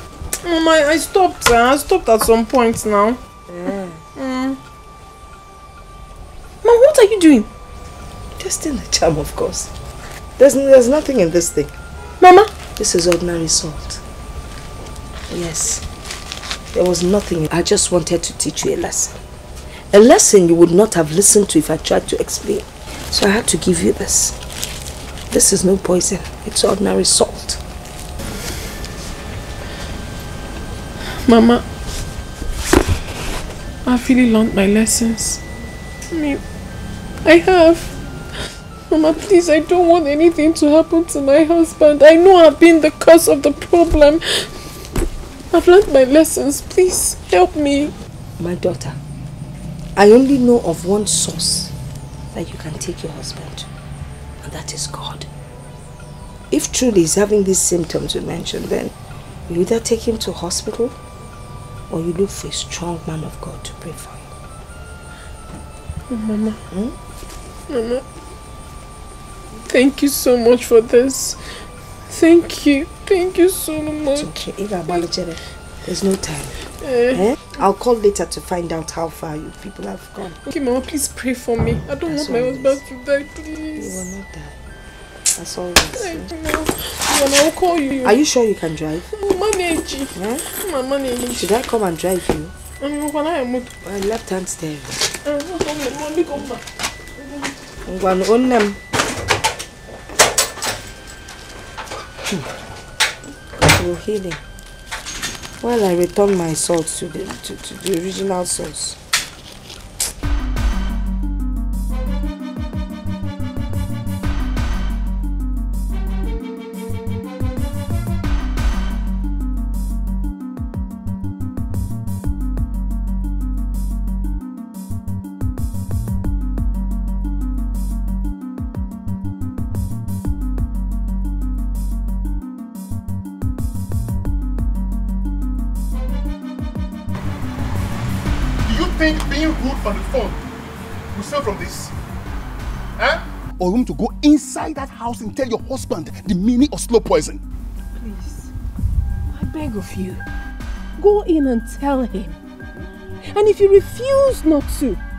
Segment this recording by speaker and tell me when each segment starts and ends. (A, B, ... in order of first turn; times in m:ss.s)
0:00.4-0:03.2 A
0:03.5-0:04.0 B
0:04.2-0:04.6 A
0:06.6-0:07.5 A
0:08.4-0:09.7 B
0:10.4-0:11.7 B
0:12.2-0:12.5 A
0:12.8-0:14.0 B
0:15.3-0:15.8 B
0:16.7-0:19.2 B
0:19.9-0:24.4 B
0:25.3-0:27.6 B
0:31.2-0:31.6 A
0:33.8-0:35.4 A
0:36.1-0:36.4 A
0:37.2-0:37.9 A
0:38.9-0:44.5 A
0:45.5-0:47.9 A
0:48.4-0:49.0 B
0:50.0-0:51.7 B
0:52.3-0:53.7 B
0:54.4-0:55.3 B
0:56.5-0:58.9 B
0:59.5-1:01.0 B
1:01.9-1:04.3 B
1:06.1-1:06.6 A
1:07.7-1:08.0 A
1:09.7-1:11.4 A
1:12.1-1:14.4 A
1:14.2-1:16.6 B
1:16.8-1:17.2 A
1:17.1-1:20.4 B
1:20.4-1:24.0 A
1:22.1-1:22.8 B
1:23.8-1:24.6 B
1:25.4-1:26.3 B
1:26.0-1:28.2 A
1:28.0-1:29.1 B
1:29.1-1:31.5 A
1:30.2-1:30.4 B
1:31.3-1:32.5 B
1:32.8-1:33.7 A
1:33.8-1:35.0 B
1:35.2-1:36.6 A
1:37.9-1:38.8 B
1:43.6-1:44.4 B
1:45.6-1:49.0 B
2:18.6-2:20.4 C
2:21.1-2:21.9 C
2:23.0-2:27.4 C
2:28.0-2:28.5 A
2:29.3-2:30.2 A
2:31.0-2:32.4 A
2:33.3-2:35.0 A